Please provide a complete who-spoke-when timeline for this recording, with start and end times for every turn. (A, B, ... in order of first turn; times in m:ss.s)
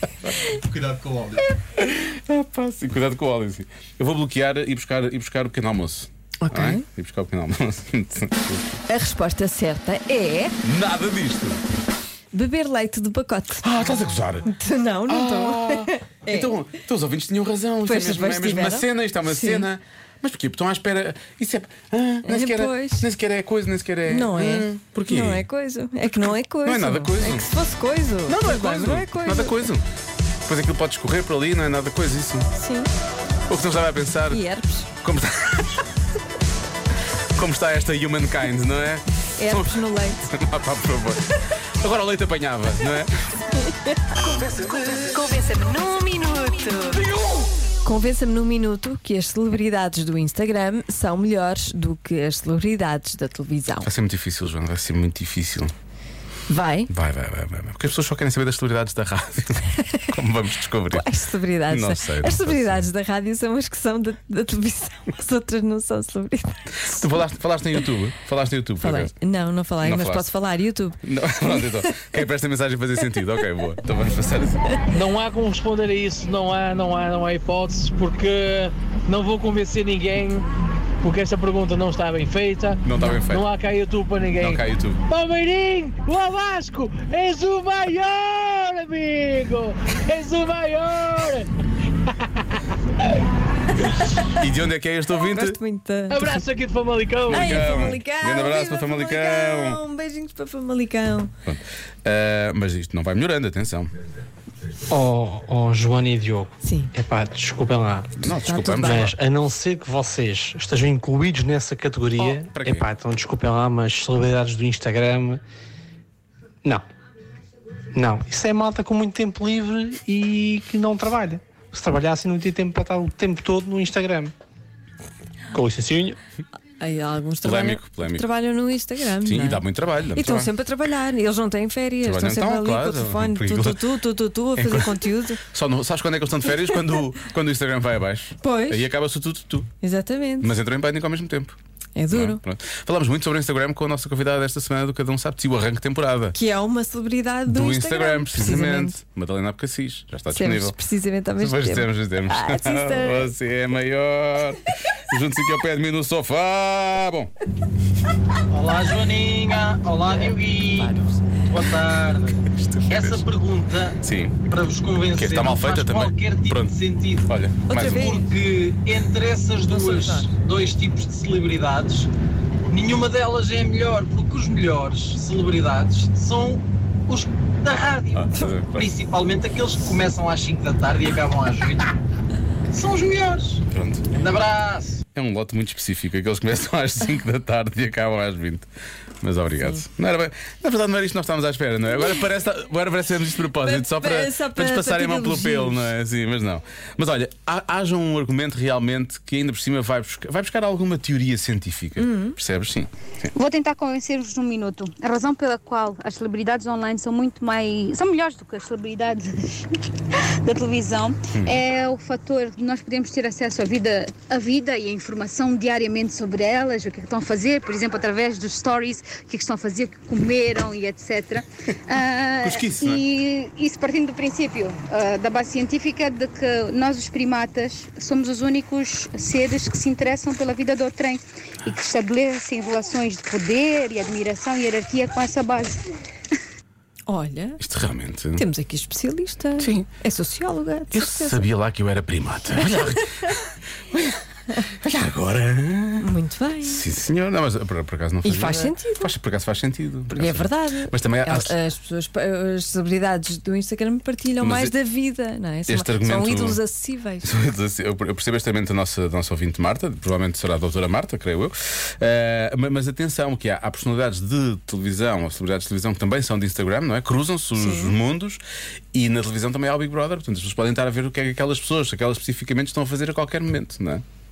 0:00.4-0:08.7 A
0:06.4-0:06.8 B
0:08.9-0:10.5 B
0:10.6-0:11.6 A
0:12.3-0:16.5 B
0:13.6-0:14.5 A
0:15.1-0:25.4 A
0:17.8-0:19.7 B
0:22.2-0:23.0 B
0:24.1-0:29.5 B
0:26.2-0:27.5 A
0:28.3-0:29.8 A
0:30.4-0:32.5 A
0:32.5-0:32.9 B
0:33.5-0:34.4 A
0:34.3-0:34.9 B
0:35.0-0:35.8 A
0:37.4-0:43.1 A
0:39.4-0:40.2 B
0:43.7-0:47.1 B
0:47.8-0:53.9 B
0:53.8-0:55.7 A
0:56.5-0:56.9 B
0:56.9-1:01.1 A
1:00.9-1:07.0 B
1:01.7-1:02.9 A
1:06.8-1:09.1 A
1:08.8-1:12.0 B
1:09.8-1:10.3 A
1:11.0-1:14.7 A
1:14.9-1:20.5 C
1:21.0-1:31.5 C
1:22.8-1:23.5 A
1:24.4-1:25.0 A
1:34.3-1:35.6 A
1:35.2-1:36.3 B
1:36.1-1:37.6 C
1:37.3-1:39.8 A
1:37.3-1:41.3 B
1:41.4-1:43.9 A
1:44.9-1:48.1 D
1:46.6-1:46.9 B
1:48.2-1:49.2 A
1:48.2-1:49.1 B
1:48.7-1:55.4 D
1:52.3-1:52.9 A
1:57.9-2:04.3 D
2:05.5-2:06.2 D
2:06.8-2:15.4 B
2:07.4-2:08.3 A
2:09.2-2:10.5 A
2:12.0-2:13.8 A
2:14.5-2:19.7 A
2:18.4-2:18.9 B
2:19.8-2:20.5 B
2:20.4-2:21.6 A
2:22.0-2:22.4 B
2:22.1-2:26.4 A
2:26.3-2:29.0 B
2:27.5-2:30.8 A
2:30.3-2:33.3 B
2:31.4-2:37.3 A
2:38.5-2:42.4 E
2:42.5-2:43.2 A
2:42.9-2:47.3 E
2:44.0-2:44.4 A
2:45.2-2:48.1 A
2:47.7-2:48.3 B
2:47.9-2:52.1 E
2:49.6-2:50.3 B
2:52.7-3:01.8 E
2:58.1-2:58.9 A
3:02.7-3:03.6 E
3:03.7-3:04.1 A
3:04.1-3:05.0 E
3:05.1-3:08.6 A
3:09.2-3:23.3 A
3:13.6-3:15.9 B
3:22.0-3:22.4 B
3:23.3-3:29.6 F
3:30.4-3:55.8 F
3:42.4-3:43.0 A
3:57.1-3:57.6 B
3:57.6-3:58.4 A
3:58.3-4:01.4 B
3:59.6-3:59.9 A
4:00.9-4:04.1 A
4:02.6-4:03.0 B
4:04.6-4:06.1 A
4:06.0-4:06.8 B
4:06.6-4:11.5 A
4:08.2-4:09.1 B
4:10.1-4:17.3 B
4:14.4-4:14.8 A
4:15.7-4:16.6 A
4:17.2-4:28.4 A
4:27.6-4:27.9 B
4:28.9-4:34.0 A